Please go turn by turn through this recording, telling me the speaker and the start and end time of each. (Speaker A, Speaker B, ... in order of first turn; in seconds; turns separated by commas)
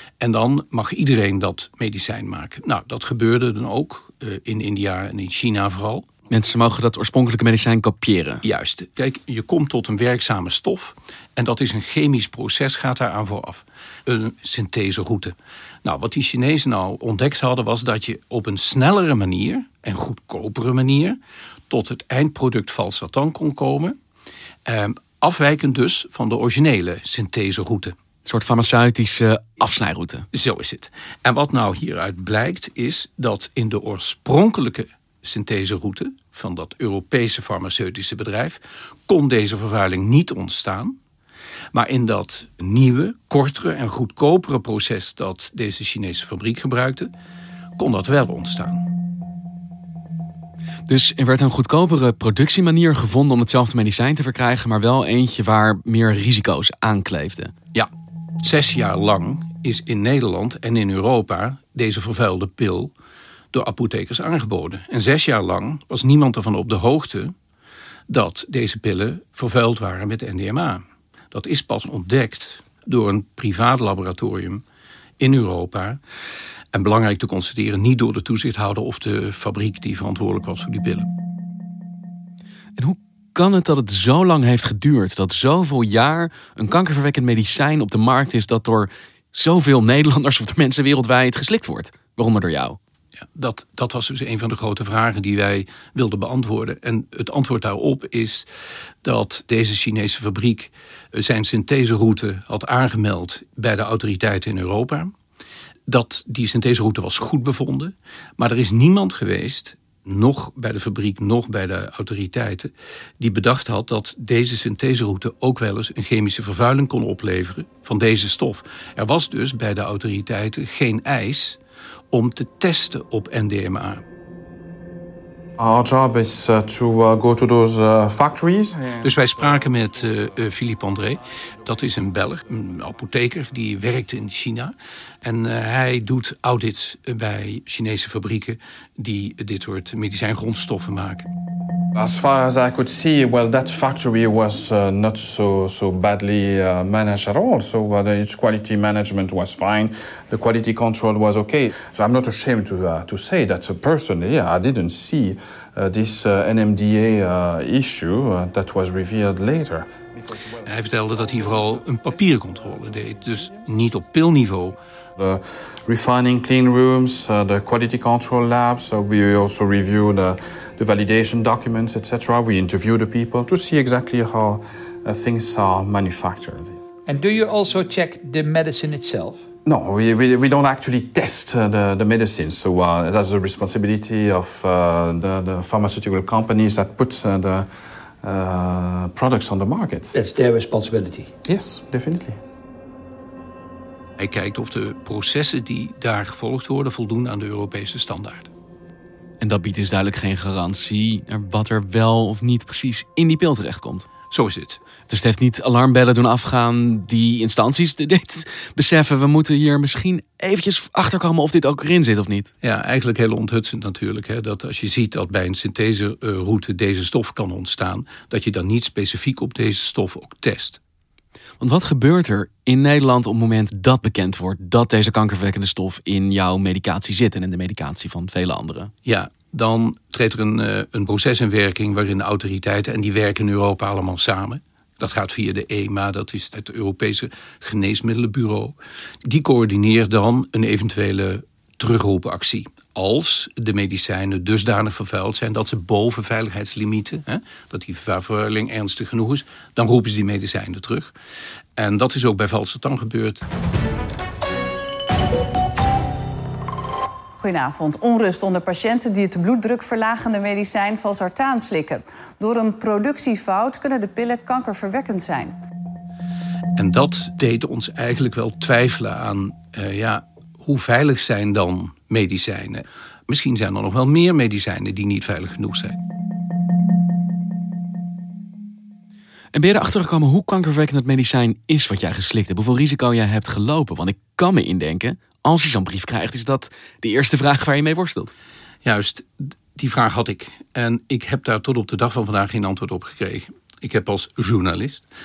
Speaker A: 0.2-6.1, Speaker B: 6.3-8.4, Speaker A: 8.4-21.2, Speaker A: 21.7-23.9, Speaker A: 24.7-27.9, Speaker B: 28.2-30.3, Speaker A: 30.3-41.0, Speaker A: 41.7-47.1, Speaker A: 47.8-48.9, Speaker B: 50.9-57.5, Speaker A: 58.4-62.9, Speaker A: 63.5-67.3, Speaker A: 68.1-74.6, Speaker A: 75.2-76.0, Speaker A: 76.7-81.1, Speaker B: 82.8-92.8, Speaker A: 93.2-98.5, Speaker A: 99.0-105.1, Speaker A: 105.9-121.6, Speaker A: 122.1-124.0, Speaker C: 125.6-129.1, Speaker A: 129.0-141.3, Speaker C: 141.9-160.1, Speaker A: 160.7-164.8, Speaker C: 165.2-176.7, Speaker D: 177.1-179.4, Speaker C: 179.7-187.7, Speaker C: 188.2-190.1, Speaker D: 190.1-191.3, Speaker C: 191.4-192.4, Speaker A: 194.2-198.5, Speaker B: 199.4-204.1, Speaker A: 204.3-204.8, Speaker B: 205.1-212.5, Speaker A: 212.6-220.8, Speaker B: 221.6-228.9, Speaker A: 229.1-251.1, Speaker A: 251.8-253.4, Speaker E: 257.4-265.6, Speaker A: 266.8-276.0, Speaker B: 279.5-288.3, Speaker A: 288.9-295.1